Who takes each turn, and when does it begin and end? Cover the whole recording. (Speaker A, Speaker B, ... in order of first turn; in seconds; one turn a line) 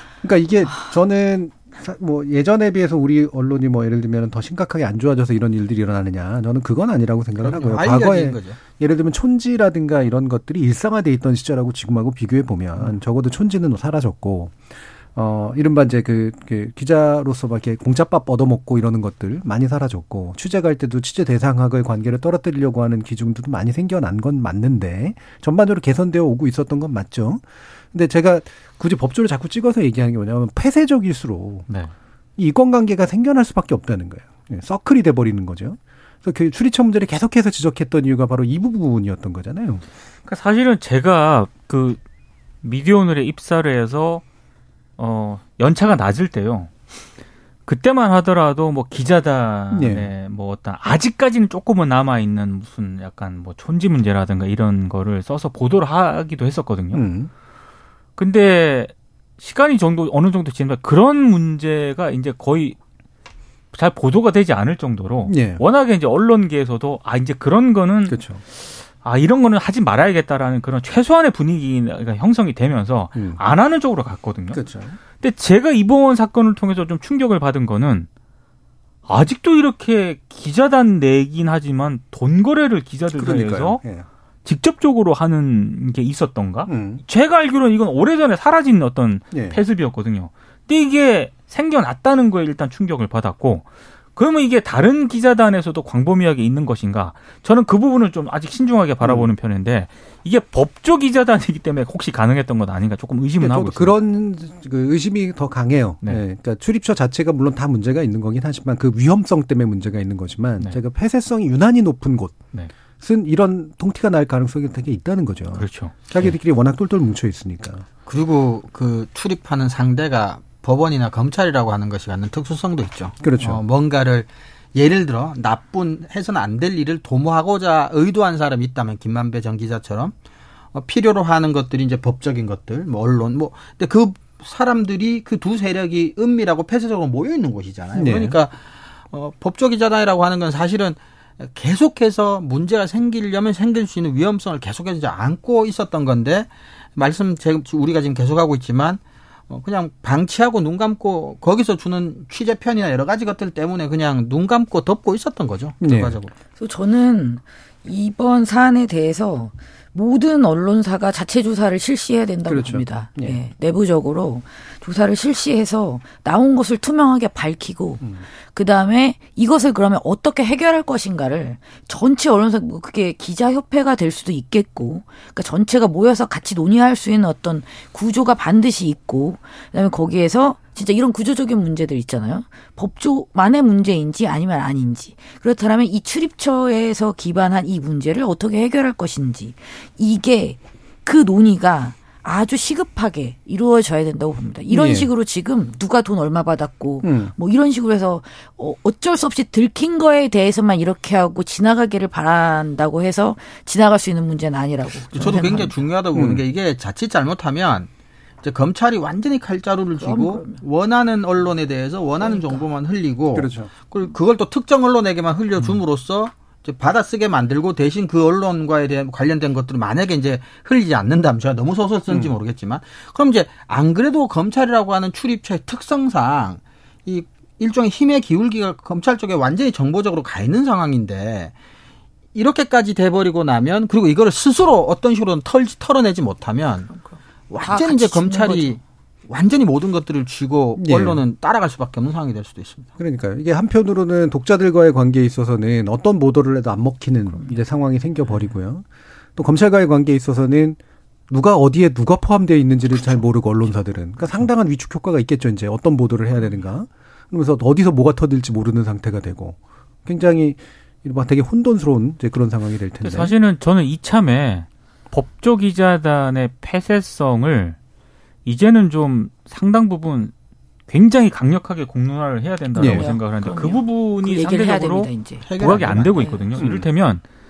Speaker A: 0.2-31.7
Speaker B: 7.4-8.6
Speaker C: 31.7-31.9
Speaker A: 32.4-39.8
Speaker C: 40.3-42.0
Speaker C: 42.6-44.2
Speaker C: 45.0-46.7
Speaker C: 47.7-57.0
Speaker A: 49.7-50.1
Speaker A: 56.9-57.3
Speaker C: 58.2-62.8
Speaker C: 63.7-74.6
Speaker A: 65.3-65.6
Speaker A: 68.1-68.4
Speaker A: 74.5-75.0
Speaker C: 75.2-78.1
Speaker C: 79.1-83.8
Speaker A: 83.1-84.1
Speaker C: 84.5-103.9
Speaker A: 86.7-87.0
Speaker A: 89.3-89.6
Speaker A: 99.0-99.3
Speaker A: 103.4-112.4
Speaker A: 113.0-117.9
Speaker C: 115.5-116.3
Speaker B: 118.1-130.2
Speaker A: 123.2-123.6
Speaker B: 130.7-138.6
Speaker A: 137.9-138.4
Speaker B: 139.1-156.3
Speaker A: 155.8-156.2
Speaker D: 156.6-205.8
Speaker A: 162.5-163.4
Speaker A: 194.7-195.1
Speaker A: 197.0-197.3
Speaker B: 205.1-207.9
Speaker A: 206.1-206.4
Speaker B: 208.4-231.5
Speaker D: 210.0-210.6
Speaker D: 212.2-212.7
Speaker A: 213.3-213.7
Speaker B: 232.3-236.9
Speaker D: 236.9-238.8
Speaker B: 237.5-242.9
Speaker A: 240.8-241.2
Speaker A: 243.0-248.8
Speaker A: 249.4-250.8
Speaker A: 251.3-263.3
Speaker C: 263.0-267.8
Speaker C: 268.5-270.3
Speaker C: 270.9-277.2
Speaker A: 272.8-273.1
Speaker D: 272.8-275.4
Speaker B: 275.5-276.7
Speaker D: 276.2-276.6
Speaker A: 276.6-276.9